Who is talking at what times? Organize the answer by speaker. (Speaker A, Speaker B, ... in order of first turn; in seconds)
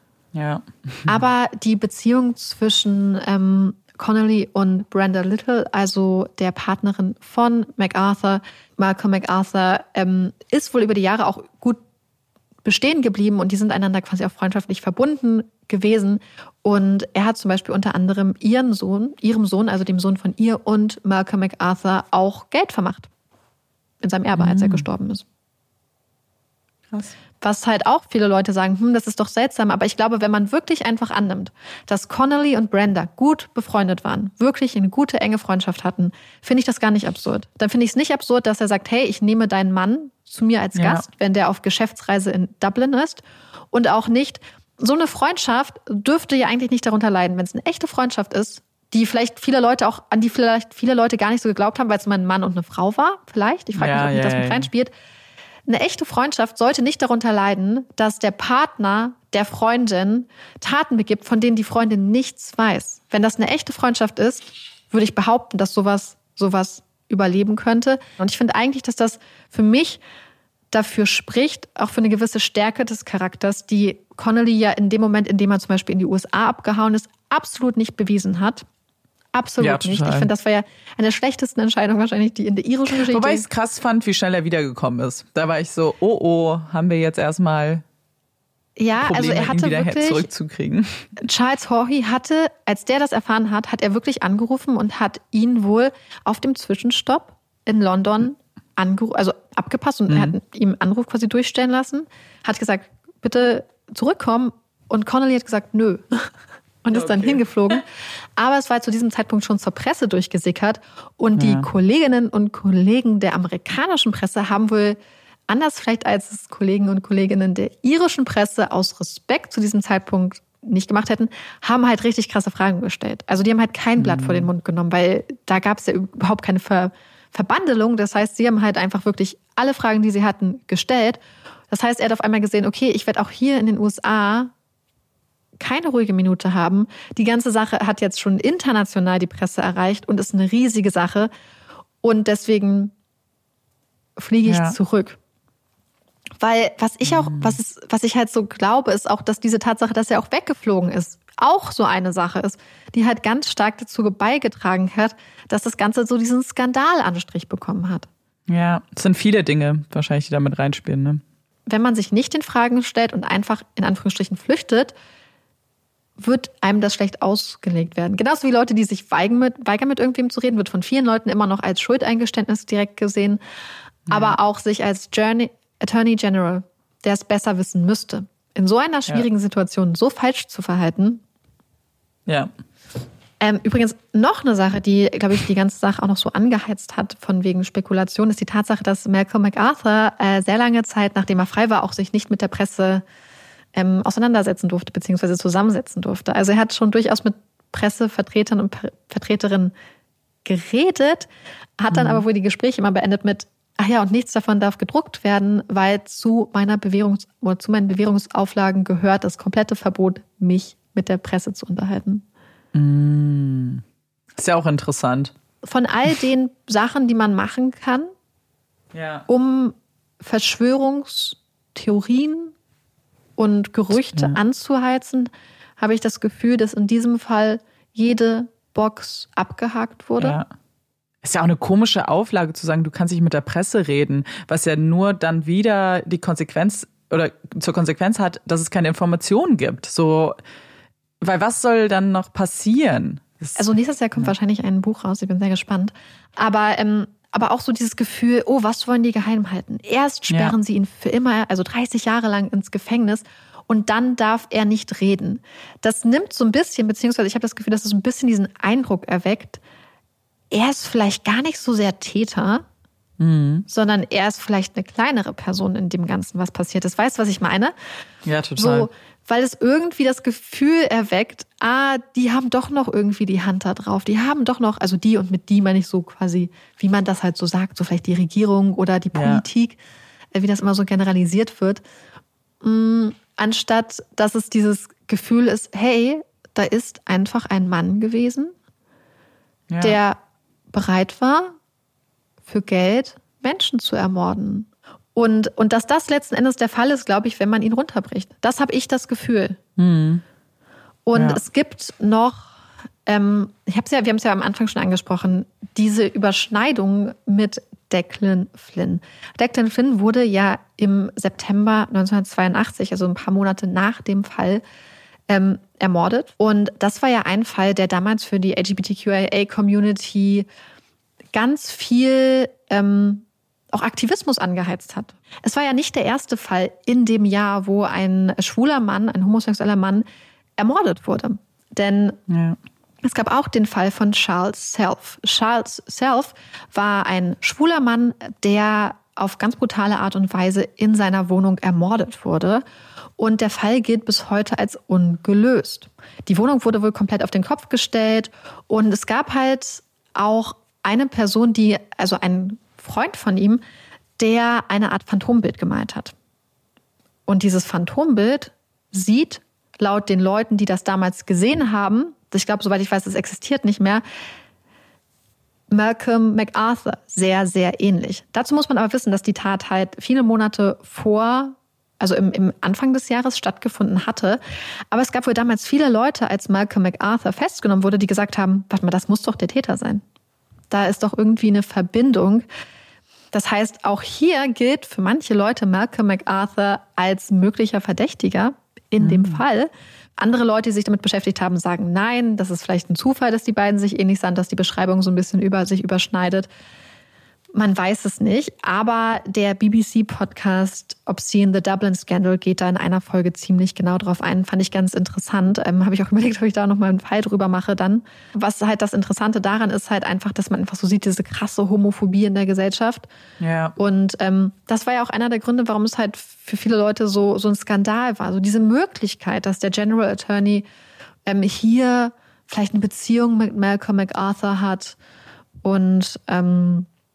Speaker A: 0.3-1.2, 24.3-24.9, 26.9-27.1, 40.7-41.0, 53.7-54.7, 79.6-80.3, 82.9-87.8, 89.0-91.1, 100.1-100.3, 106.9-107.4, 111.3-111.7, 124.0-124.5, 144.4-144.8, 147.0-147.6, 158.5-161.2, 174.1-174.4, 201.9-202.2, 212.7-213.8, 214.4-215.3, 218.9-219.3, 224.1-224.4, 230.2-230.5, 231.2-240.4, 241.2-243.7, 250.3-250.5, 263.2-263.6, 268.2-268.9, 279.1-279.4, 289.7-290.0, 299.8-300.2, 301.1-301.4, 332.3-332.6, 389.0-389.4, 413.4-413.7
Speaker B: 1.1-11.8, 12.6-23.1, 24.0-25.2, 27.4-54.9, 55.7-70.0, 70.7-78.6, 79.3-83.4, 88.8-90.3, 91.2-106.3, 106.8-115.0, 115.5-131.2, 131.7-134.5, 135.6-141.3, 142.0-142.9, 144.2-145.2, 146.4-158.1, 161.7-164.9, 166.2-173.4, 174.1-181.2, 183.4-193.0, 193.7-199.7, 200.4-201.3, 201.8-212.2, 215.6-218.1, 219.3-222.5, 223.4-230.4, 243.6-259.6, 260.5-262.6, 263.7-267.7, 268.6-279.8, 280.3-281.8, 282.6-288.5, 289.8-290.2, 290.7-291.5, 292.4-299.6, 301.1-302.5, 303.1-314.6, 315.3-320.5, 321.3-330.0, 330.6-332.2, 333.0-342.6, 343.2-353.6, 354.2-356.1, 357.3-364.0, 365.7-374.4, 374.9-380.0, 380.7-382.4, 383.3-396.5, 397.5-413.1, 413.8-420.6, 421.2-425.0, 425.6-426.9